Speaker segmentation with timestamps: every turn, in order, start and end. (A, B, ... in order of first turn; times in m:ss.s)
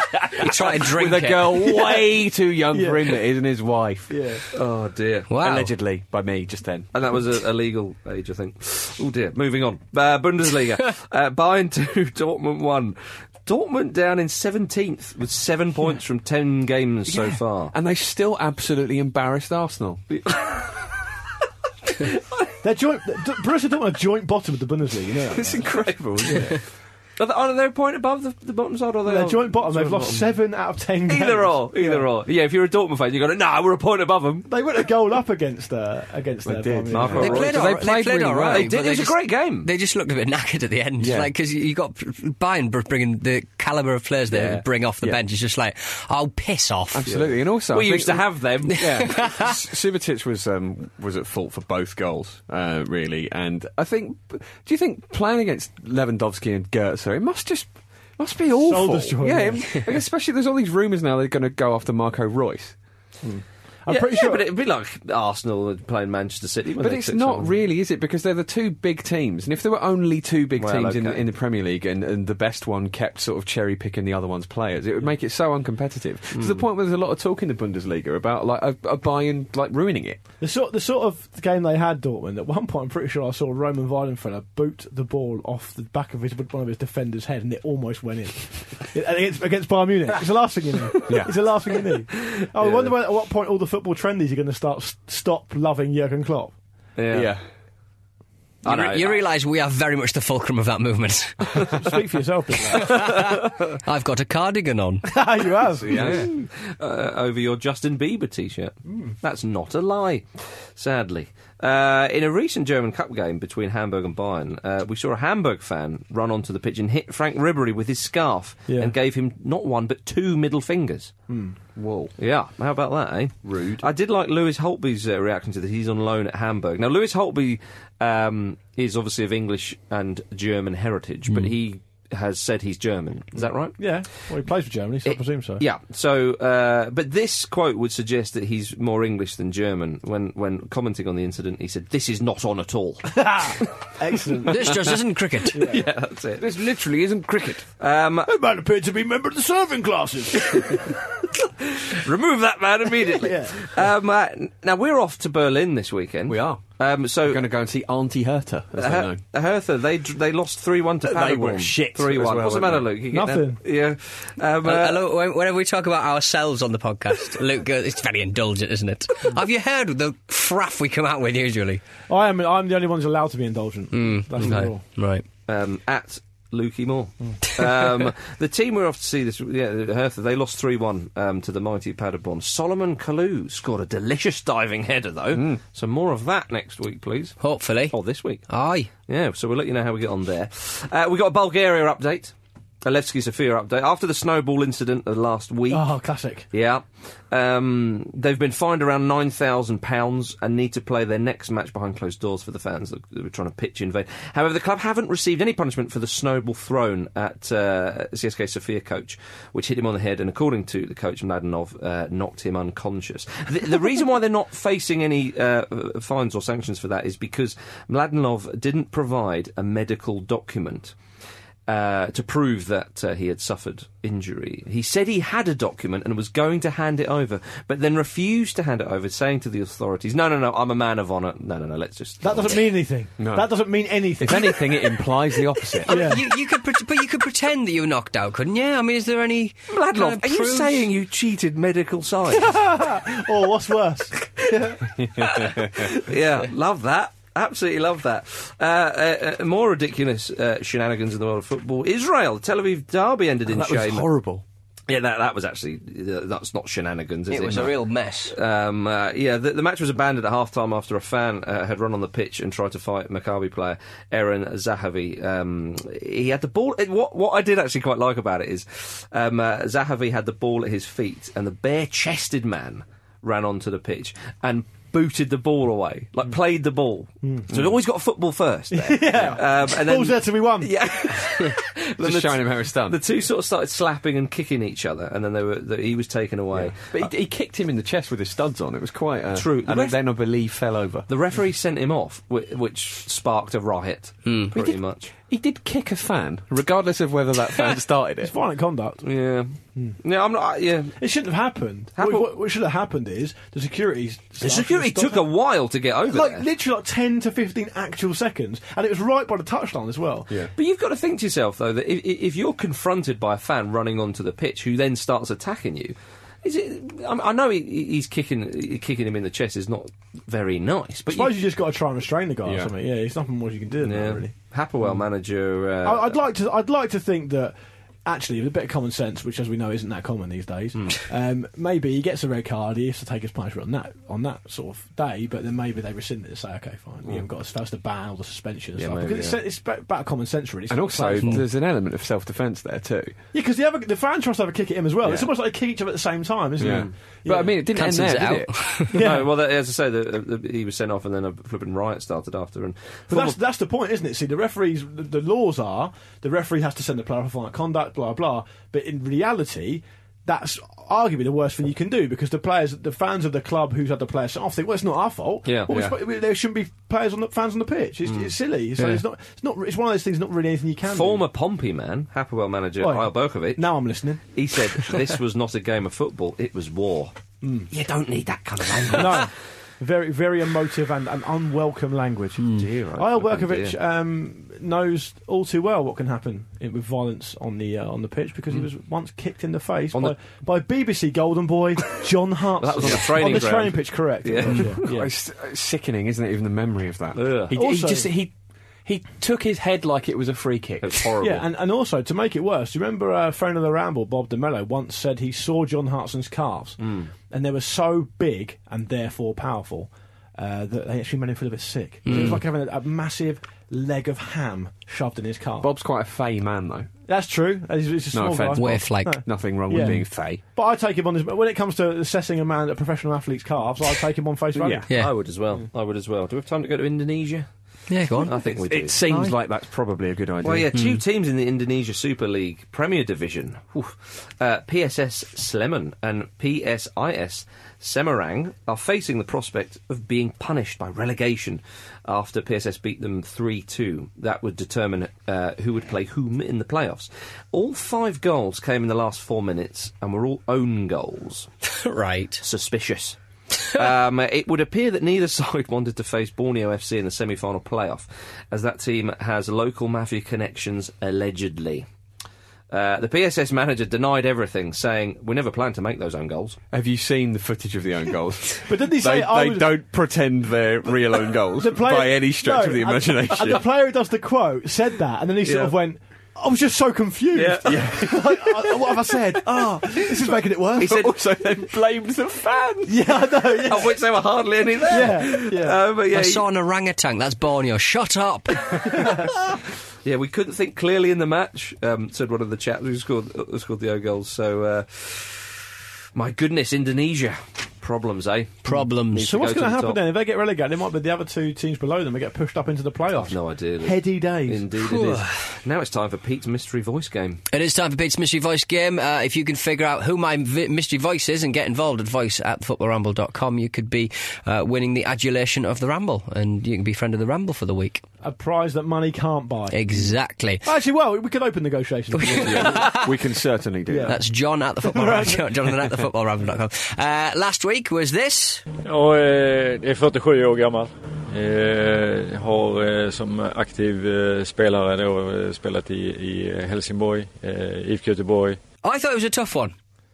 0:00.4-0:01.7 A
0:00.6-0:04.4 B
0:02.7-0:03.2 C
0:04.1-0:04.4 C
0:04.5-0:05.3 D
0:05.3-0:05.7 A
0:05.4-0:06.9 B
0:06.9-0:17.7 D
0:17.0-0:20.0 B
0:20.1-0:20.9 D
0:22.0-0:22.5 D
0:22.6-0:26.5 C
0:25.3-0:26.6 B
0:25.9-0:26.3 D
0:27.2-0:30.3 D
0:29.0-0:32.1 C
0:31.1-0:34.5 D
0:34.5-0:37.4 C
0:36.4-0:38.7 B
0:36.9-0:37.8 D
0:37.2-0:47.1 A
0:38.4-0:39.7 D
0:41.0-0:41.3 B
0:44.3-0:44.6 D
0:46.9-1:02.8 B
0:47.1-0:49.3 D
0:48.8-0:49.3 A
0:58.6-0:59.9 C
1:03.2-1:04.4 C
1:03.9-1:07.6 D
1:06.8-1:20.2 B
1:10.6-1:11.2 D
1:16.3-1:16.6 D
1:20.4-1:36.5 C
1:31.1-1:31.3 B
1:32.6-1:32.9 D
1:37.0-1:37.3 D
1:37.1-1:37.4 B
1:38.6-1:39.2 D
1:38.6-1:41.4 A
1:41.6-1:43.1 C
1:42.8-1:43.3 A
1:43.0-1:43.5 D
1:43.8-1:45.0 A
1:45.1-1:46.2 C
1:45.7-1:46.3 B
1:45.9-2:01.1 D
1:48.9-1:49.1 C
1:58.7-1:58.9 C
2:01.3-2:01.6 C
2:01.8-2:02.1 B
2:02.2-2:13.8 D
2:03.4-2:03.9 B
2:13.4-2:15.6 C
2:15.0-2:23.7 D
2:23.1-2:24.9 C
2:24.5-2:25.6 A
2:25.5-2:25.8 C
2:25.5-2:26.6 D
2:26.4-2:27.6 B
2:27.8-2:28.3 D
2:28.2-2:31.0 C
2:30.5-2:30.9 D
2:31.7-2:37.5 D
2:33.1-2:33.8 C
2:36.3-2:39.2 B
2:38.8-2:45.0 D
2:41.0-2:42.9 B
2:43.1-2:43.6 C
2:44.6-2:51.8 A
2:52.1-2:54.8 C
2:53.9-2:55.2 A
2:55.5-3:07.4 D
3:05.3-3:05.6 B
3:07.4-3:08.0 A
3:07.9-3:08.4 D
3:08.5-3:08.9 A
3:09.1-3:15.9 D
3:15.7-3:16.4 C
3:16.5-3:40.9 D
3:41.7-3:52.8 D
3:52.2-3:55.0 C
3:53.2-3:56.0 B
3:55.9-3:56.2 C
3:55.9-4:00.9 A
3:59.7-4:02.5 D
4:02.3-4:04.8 C
4:04.4-4:14.1 D
4:05.0-4:06.0 B
4:13.5-4:14.4 C
4:14.9-4:47.1 D
4:17.3-4:18.3 A
4:37.2-4:37.7 C
4:38.7-4:40.7 C
4:42.0-4:43.0 B
4:46.5-4:51.1 B
4:49.3-4:50.0 D
4:51.1-4:55.1 D
4:54.2-4:54.5 A
4:54.5-4:58.3 B
4:58.2-4:59.0 C
4:59.0-5:01.0 D
5:01.0-5:05.3 C
5:02.0-5:02.3 D
5:04.4-5:06.5 D
5:06.1-5:10.3 C
5:10.6-5:21.4 D
5:21.1-5:24.3 C
5:22.4-5:22.7 B
5:23.8-5:26.2 D
5:25.8-5:27.5 C
5:28.0-5:41.4 C
5:38.8-5:39.4 D
5:40.7-5:43.2 B
5:43.3-5:47.6 C
5:45.0-5:45.3 B
5:46.6-5:48.8 B
5:46.6-5:46.9 D
5:47.7-5:48.9 A
5:48.9-5:49.3 C
5:48.9-5:53.4 D
5:53.1-6:11.2 C
6:05.4-6:05.9 D
6:05.7-6:06.0 B
6:08.0-6:09.0 D
6:10.8-6:13.7 D
6:12.8-6:14.2 C
6:14.3-6:17.1 D
6:17.4-6:17.7 C
6:17.7-6:19.3 D
6:18.9-6:35.1 C
6:22.4-6:23.8 D
6:32.6-6:34.9 D
6:32.8-6:33.4 B
6:34.8-6:38.3 B
6:37.1-6:37.6 D
6:37.5-6:38.1 C
6:38.8-6:41.1 B
6:40.8-6:41.4 D
6:41.2-6:55.7 C
6:46.8-6:47.1 D
6:52.0-6:52.4 A
6:55.6-6:56.9 B
6:57.1-7:04.8 C
6:58.1-7:00.4 B
6:58.6-6:59.2 A
7:04.6-7:04.8 B
7:04.9-7:07.5 D
7:04.9-7:05.1 A
7:07.9-7:08.3 A
7:08.1-7:09.0 D
7:08.3-7:10.7 B
7:10.4-7:31.5 D
7:31.6-7:32.4 A
7:32.4-7:41.8 D
7:42.7-7:46.6 D
7:46.7-7:53.7 B
7:48.6-7:49.7 C
7:51.6-8:01.0 C
7:55.4-7:55.7 D
7:57.3-7:57.8 D
7:57.6-8:03.0 B
8:00.8-8:01.1 D
8:02.8-8:04.0 C
8:03.6-8:06.5 D
8:04.8-8:05.8 C
8:06.1-8:08.6 A
8:08.9-8:09.2 C
8:10.0-8:15.6 D
8:16.1-8:20.0 D
8:18.6-8:19.3 A
8:19.2-8:24.7 C
8:23.1-8:27.4 D
8:24.8-8:25.4 A
8:27.5-8:38.0 A
8:38.2-8:42.9 C
8:39.7-8:40.6 A
8:42.1-8:43.1 A
8:42.4-8:44.2 B
8:43.9-8:44.2 C
8:44.1-8:48.6 A
8:44.8-8:45.4 C
8:48.8-8:58.6 E
8:58.8-8:59.7 A